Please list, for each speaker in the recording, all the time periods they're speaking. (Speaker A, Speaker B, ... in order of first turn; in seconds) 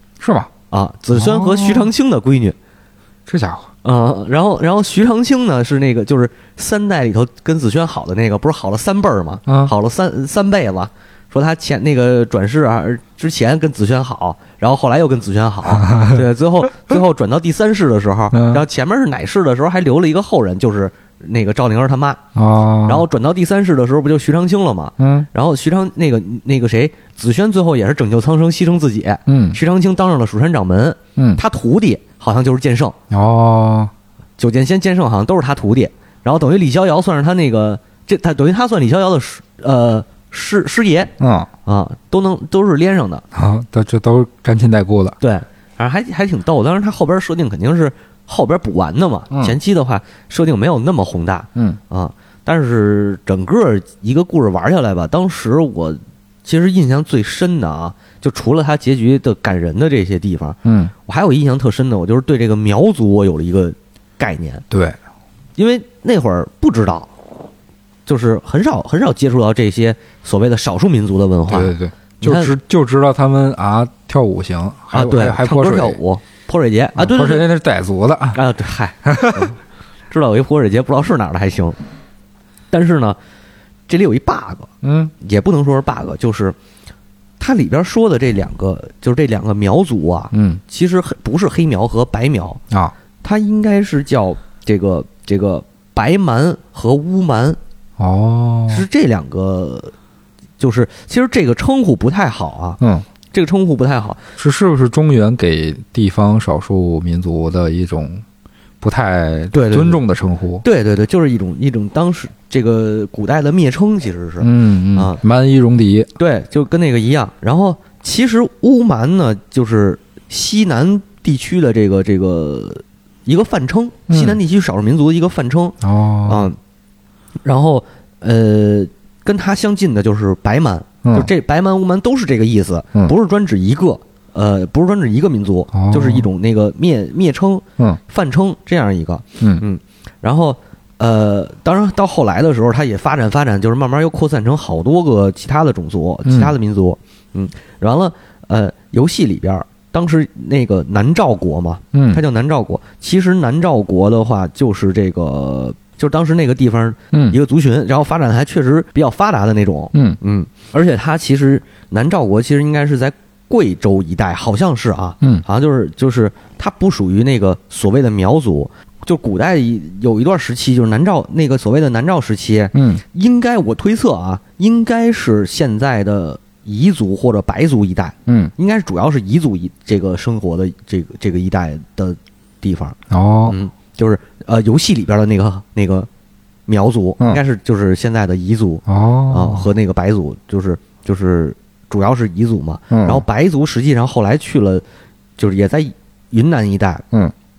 Speaker A: 0.2-0.5, 1.1-1.9, 3.3-3.7, 9.5-9.7, 15.7-16.2, 18.3-18.6, 22.4-23.1, 25.0-25.3, 29.3-29.6, 33.1-33.9, 41.2-41.5, 43.3-45.2, 60.6-60.9, 64.7-65.0, 71.5-76.0, 77.0-78.4, 79.0-79.5, 84.8-85.1, 90.3-90.6, 98.0-98.8, 102.8-103.1, 104.4-108.2, 108.8-110.6, 114.4-116.1, 124.1-124.4, 125.8-126.5, 131.0-131.3, 135.7-136.3, 146.2-146.5, 151.9-152.2, 157.1-157.4, 159.9-160.2, 172.7-173.0, 178.3-178.5, 183.1-183.6, 188.9-189.7, 192.9-193.2
Speaker B: 0.7-2.6, 3.8-22.2, 22.9-33.0, 34.4-41.1, 41.7-43.2, 45.2-64.7, 65.6-67.1, 68.1-72.5, 74.9-77.5, 78.3-79.6, 80.1-81.8, 82.7-83.2, 83.9-86.6, 87.4-92.6, 93.2-97.6, 98.7-99.9, 100.6-102.8, 103.3-104.2, 109.5-110.0, 110.6-115.2, 116.2-126.6, 127.5-186.1, 186.7-194.8, 195.4-197.1